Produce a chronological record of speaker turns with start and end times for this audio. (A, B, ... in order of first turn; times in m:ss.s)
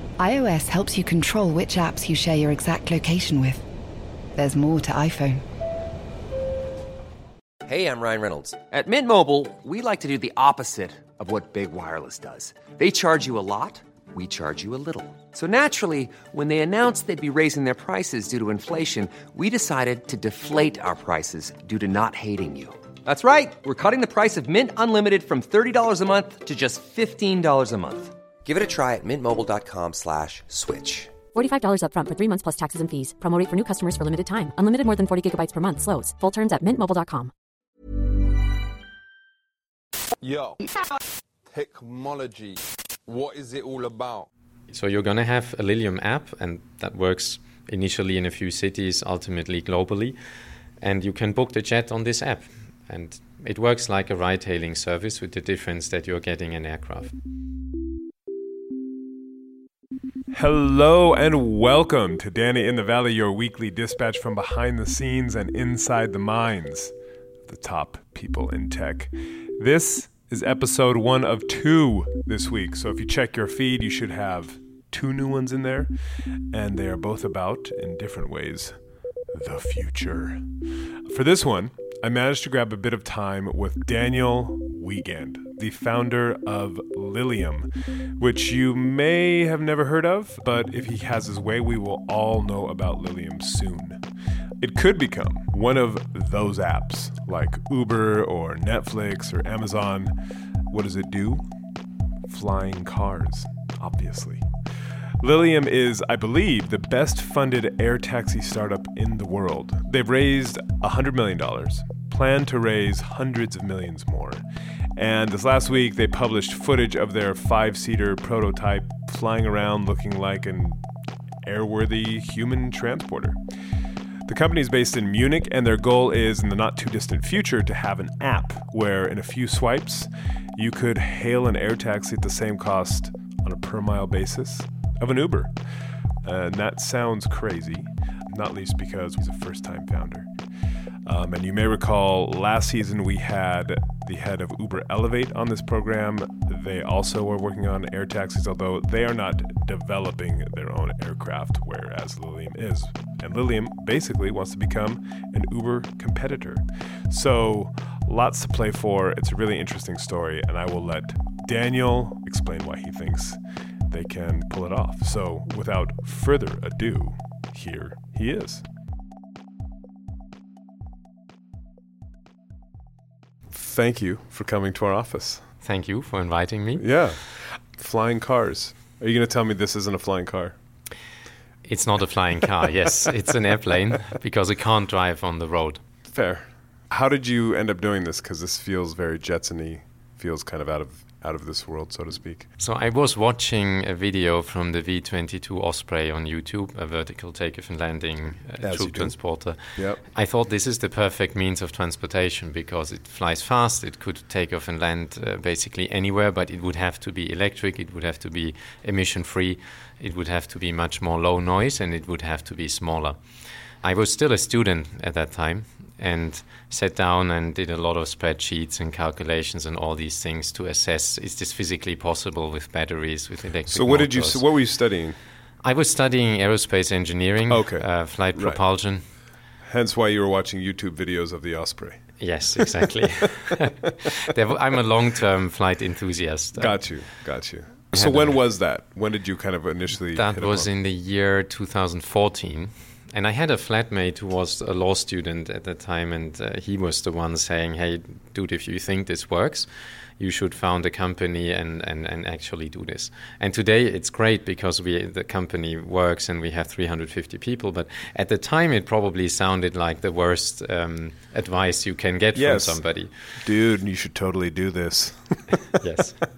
0:00.2-0:03.6 A
0:04.3-0:05.4 A
0:07.6-0:31.1 B
0:31.3-0:37.3 C
0:40.2-0:40.6 D
0:41.5-0:44.3 D
0:44.7-0:50.2 E
0:50.8-0:57.1 E
1:00.3-1:06.9 F
1:07.5-1:15.9 F
1:16.5-1:18.8 F
1:19.3-1:20.5 F
1:21.0-1:34.0 F
1:34.6-1:40.1 F
1:40.7-1:41.5 F
1:42.3-1:44.5 F
1:45.2-1:54.4 F
1:54.9-2:00.8 F
2:01.4-2:03.4 F
2:04.2-2:15.5 F
2:16.2-2:20.3 F
2:21.0-2:48.6 F
2:53.5-2:55.5 F
2:55.6-2:56.9 E
2:56.8-3:00.6 F
3:01.6-3:05.8 E
3:06.0-3:12.5 F
3:12.6-3:33.2 E
3:18.6-3:19.2 F
3:19.7-3:20.0 F
3:33.8-3:44.5 E
3:43.7-3:45.2 F
3:45.6-3:49.0 E
3:47.5-3:48.6 F
3:49.6-3:52.9 F
3:52.2-3:57.0 E
3:56.6-4:00.7 F
3:57.9-3:58.4 E
4:00.1-4:09.7 E
4:10.2-4:23.1 E
4:22.3-4:22.8 F
4:23.4-4:25.7 F
4:25.6-4:26.2 E